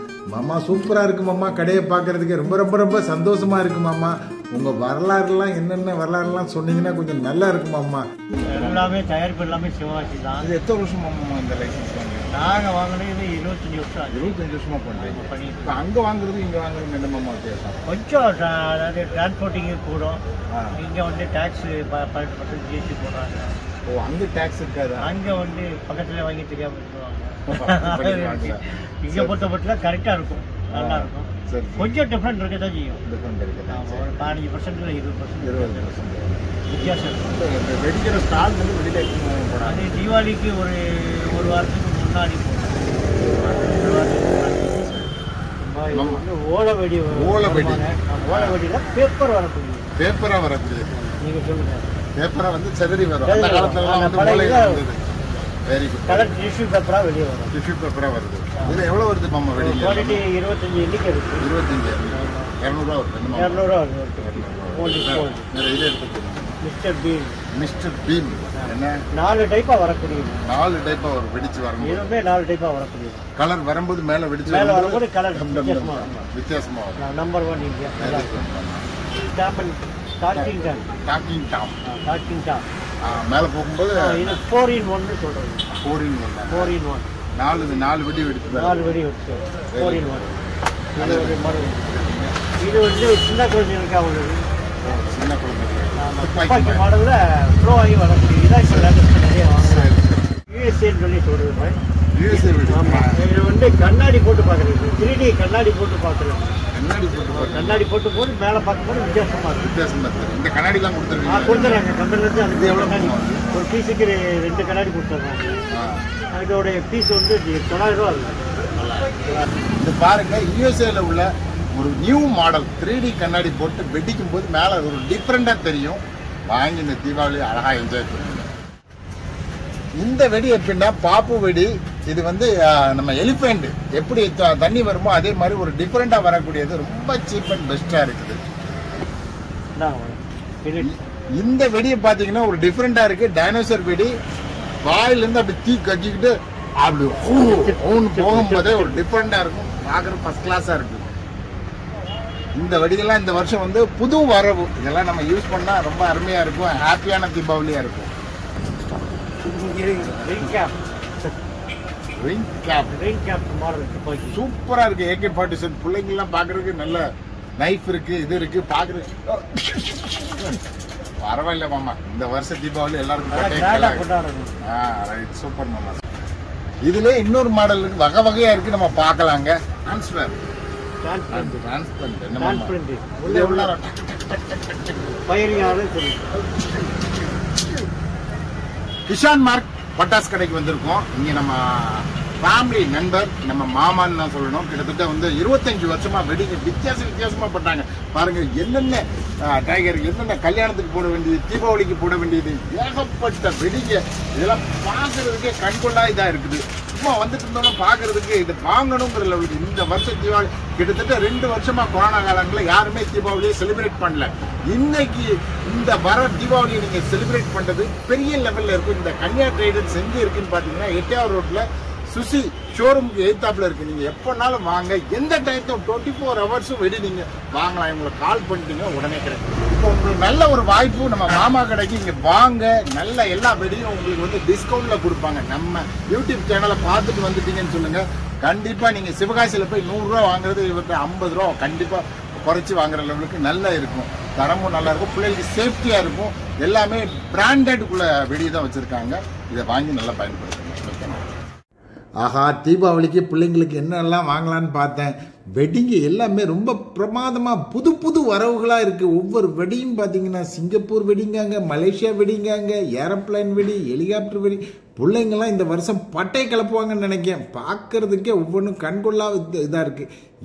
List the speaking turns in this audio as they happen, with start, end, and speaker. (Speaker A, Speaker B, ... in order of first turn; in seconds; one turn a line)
Speaker A: 0.3-8.9
Speaker B: 8.5-10.5
Speaker A: 10.4-12.3
Speaker B: 12.3-14.4
Speaker A: 14.1-17.8
Speaker B: 14.9-15.8
Speaker B: 17.9-20.2
Speaker B: 20.8-23.6
Speaker A: 23.9-25.1
Speaker B: 25.0-33.0
Speaker A: 27.5-29.5
Speaker A: 30.7-31.9
Speaker A: 33.1-34.1
Speaker B: 33.7-35.9
Speaker A: 35.4-40.2
Speaker B: 36.7-37.5
Speaker B: 39.6-44.8
Speaker A: 43.1-45.2
Speaker B: 45.6-49.9
Speaker A: 45.9-46.2
Speaker A: 47.1-48.6
Speaker A: 50.0-51.1
Speaker B: 51.0-51.9
Speaker A: 52.2-55.1
Speaker B: 53.2-54.8
Speaker A: 55.6-56.4
Speaker B: 56.1-57.5
Speaker A: 57.5-60.2
Speaker B: 59.6-61.5
Speaker A: 61.4-63.6
Speaker B: 62.1-62.6
Speaker B: 63.3-65.5
Speaker A: 64.2-66.6
Speaker B: 66.6-67.4
Speaker A: 67.5-69.0
Speaker B: 68.6-70.5
Speaker A: 70.5-72.1
Speaker B: 71.8-73.3
Speaker A: 73.4-77.1
Speaker B: 74.5-76.3
Speaker B: 77.0-78.4
Speaker A: 78.0-78.9
Speaker B: 79.2-80.9
Speaker A: 80.3-81.8
Speaker B: 81.9-82.6
Speaker A: 83.0-84.4
Speaker B: 84.0-85.7
Speaker A: 85.8-86.7
Speaker B: 86.5-87.1
Speaker A: 87.4-89.0
Speaker B: 88.5-90.3
Speaker A: 89.7-92.4
Speaker B: 91.0-92.0
Speaker B: 92.6-94.5
Speaker A: 94.8-96.8
Speaker B: 96.0-100.0
Speaker A: 98.6-98.9
Speaker A: 99.6-100.4
Speaker B: 100.5-106.6
Speaker A: 102.1-103.2
Speaker A: 106.7-107.8
Speaker B: 107.3-109.7
Speaker A: 109.6-111.8
Speaker B: 111.3-115.6
Speaker A: 112.5-113.5
Speaker A: 115.7-116.1
Speaker B: 116.3-118.4
Speaker A: 118.8-119.1
Speaker A: 119.8-128.5
Speaker A: 130.0-138.4
Speaker B: 139.8-141.0
Speaker A: 140.8-144.1
Speaker A: 144.8-151.1
Speaker B: 147.3-149.0
Speaker A: 152.6-158.1
Speaker B: 159.7-161.3
Speaker A: 159.7-160.5
Speaker A: 162.2-162.9
Speaker B: 162.9-164.4
Speaker A: 164.3-167.1
Speaker A: 167.6-170.6
Speaker A: 171.2-174.1
Speaker B: 173.3-174.5
Speaker A: 174.6-176.0
Speaker A: 176.9-180.4
Speaker B: 181.0-181.7
Speaker A: 181.3-185.2
Speaker B: 182.4-183.7
Speaker B: 185.3-186.4
Speaker A: 189.1-251.3
Speaker A: 252.2-270.1